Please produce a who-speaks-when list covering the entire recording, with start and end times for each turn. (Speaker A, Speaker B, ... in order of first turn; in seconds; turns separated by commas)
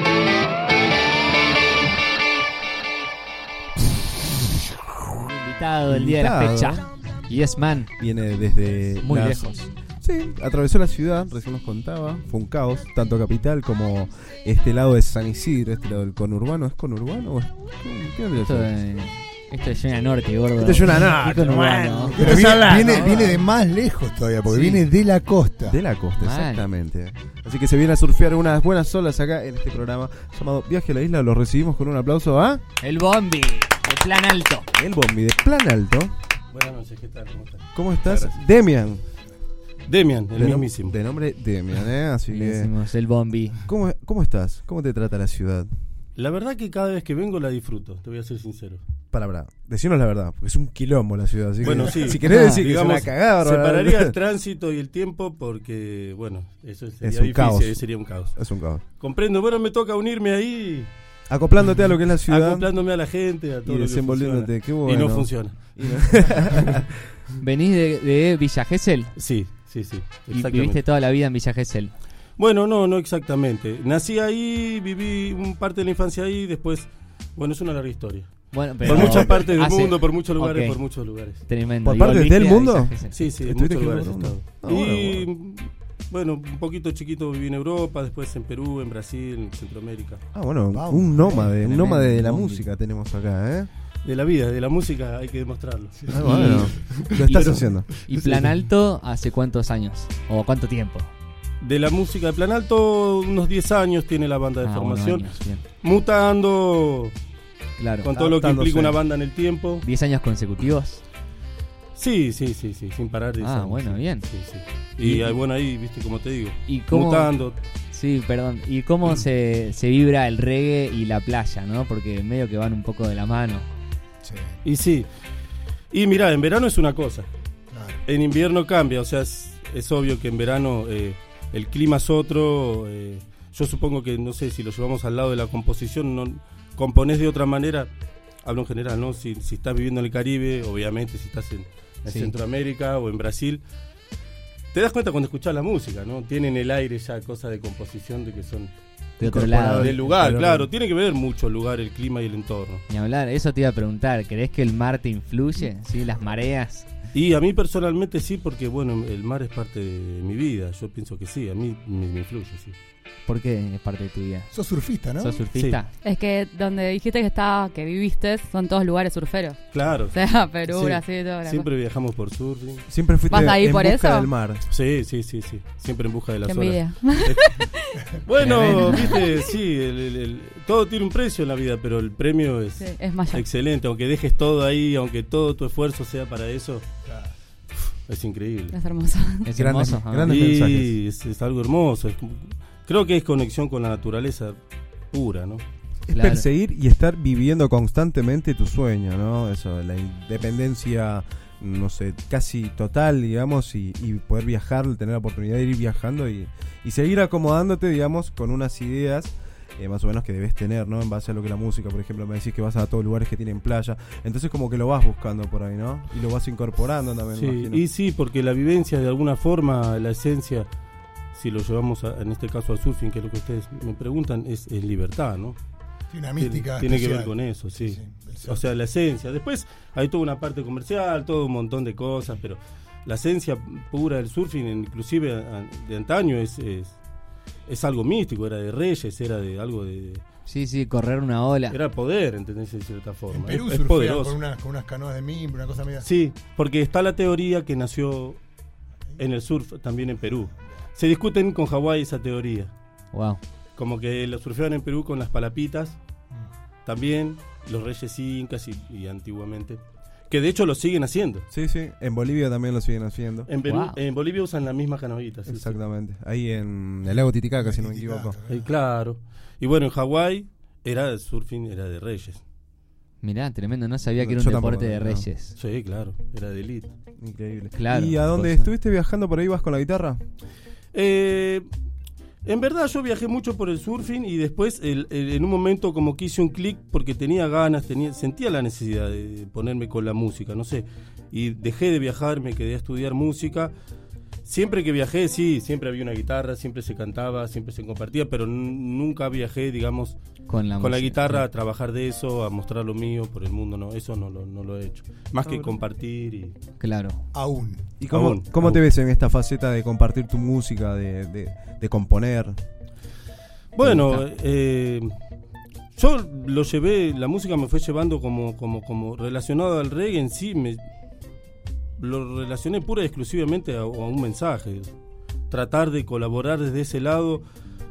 Speaker A: 5.1-7.9, Speaker B: 5.9-6.9, Speaker B: 8.0-18.7, Speaker A: 9.0-9.7, Speaker A: 18.4-23.4, Speaker B: 20.6-23.3, Speaker C: 22.1-25.8, Speaker A: 24.5-24.8, Speaker B: 25.7-32.6, Speaker A: 26.2-26.7, Speaker A: 32.8-34.7, Speaker B: 34.8-36.1, Speaker D: 36.5-38.3, Speaker B: 37.8-39.0, Speaker D: 39.9-41.0, Speaker B: 40.4-42.7, Speaker A: 42.3-43.6, Speaker B: 43.6-45.7, Speaker D: 46.2-48.8, Speaker B: 49.1-54.2, Speaker D: 51.6-58.4, Speaker A: 52.2-52.6, Speaker B: 57.0-57.8, Speaker B: 58.4-58.8, Speaker D: 59.0-60.9, Speaker B: 61.3-62.7, Speaker D: 62.3-66.4, Speaker B: 63.7-66.9, Speaker A: 67.4-69.1, Speaker D: 69.2-70.8, Speaker A: 70.3-71.9, Speaker D: 72.4-81.4, Speaker A: 78.5-80.8, Speaker B: 78.9-79.3, Speaker A: 81.4-83.2, Speaker B: 81.8-85.3, Speaker D: 83.1-90.2, Speaker B: 90.3-93.7, Speaker C: 90.7-91.5, Speaker A: 91.3-92.6, Speaker D: 94.0-96.2, Speaker C: 96.0-97.6, Speaker B: 96.1-98.5, Speaker A: 96.2-101.1, Speaker D: 101.6-105.3, Speaker A: 104.6-105.6, Speaker D: 105.8-107.2, Speaker A: 107.8-108.1, Speaker D: 108.0-109.8, Speaker B: 108.2-109.0, Speaker A: 109.8-111.0, Speaker D: 112.0-117.6, Speaker A: 113.4-114.3, Speaker A: 115.0-115.4, Speaker A: 116.7-117.3, Speaker A: 117.9-123.7, Speaker C: 124.2-124.5, Speaker D: 124.6-125.1, Speaker D: 125.9-127.3, Speaker C: 127.7-128.0, Speaker D: 128.1-137.9, Speaker D: 138.4-143.6, Speaker A: 142.1-142.3, Speaker D: 144.7-148.7, Speaker A: 149.2-150.1, Speaker B: 149.2-150.7, Speaker D: 149.7-152.8, Speaker A: 152.9-156.9, Speaker D: 157.1-162.8, Speaker A: 163.3-164.5, Speaker C: 164.5-165.4, Speaker A: 165.2-165.9, Speaker D: 165.5-165.8, Speaker E: 166.0-169.6, Speaker D: 169.7-172.9, Speaker E: 170.1-171.7, Speaker B: 172.9-174.6, Speaker E: 173.3-174.3, Speaker D: 174.7-186.8, Speaker E: 176.4-178.0, Speaker A: 178.4-179.2, Speaker E: 178.7-179.4, Speaker E: 182.8-183.5, Speaker C: 187.1-187.3, Speaker D: 188.1-188.8, Speaker E: 188.7-189.5, Speaker A: 189.5-190.3, Speaker B: 189.5-191.0, Speaker D: 190.3-194.6, Speaker D: 195.1-195.6, Speaker A: 196.1-196.5, Speaker B: 196.1-217.8, Speaker D: 217.4-220.7, Speaker D: 221.3-225.6, Speaker C: 226.1-228.6, Speaker D: 226.4-237.0, Speaker D: 237.7-240.2, Speaker A: 240.5-241.8, Speaker D: 241.7-244.4, Speaker C: 243.3-246.1, Speaker D: 246.0-248.4, Speaker D: 249.2-252.7, Speaker A: 253.1-253.4, Speaker D: 253.8-256.0, Speaker D: 256.9-261.5, Speaker B: 261.5-263.5, Speaker D: 263.5-265.8, Speaker A: 263.6-264.0, Speaker B: 265.5-268.4, Speaker C: 267.6-268.7, Speaker D: 268.5-272.4, Speaker A: 273.2-275.6, Speaker B: 274.2-275.3, Speaker D: 275.6-276.9, Speaker B: 277.2-280.2, Speaker A: 277.8-278.7, Speaker D: 280.9-281.7, Speaker D: 282.4-293.7, Speaker D: 294.4-300.2, Speaker A: 300.5-301.5, Speaker D: 300.8-306.6, Speaker B: 305.4-305.7, Speaker A: 306.8-307.2, Speaker C: 307.3-307.9, Speaker B: 308.0-312.6, Speaker D: 308.1-308.8, Speaker D: 313.8-315.1, Speaker A: 313.9-314.2, Speaker D: 316.0-320.8, Speaker D: 322.0-324.9, Speaker D: 325.5-327.4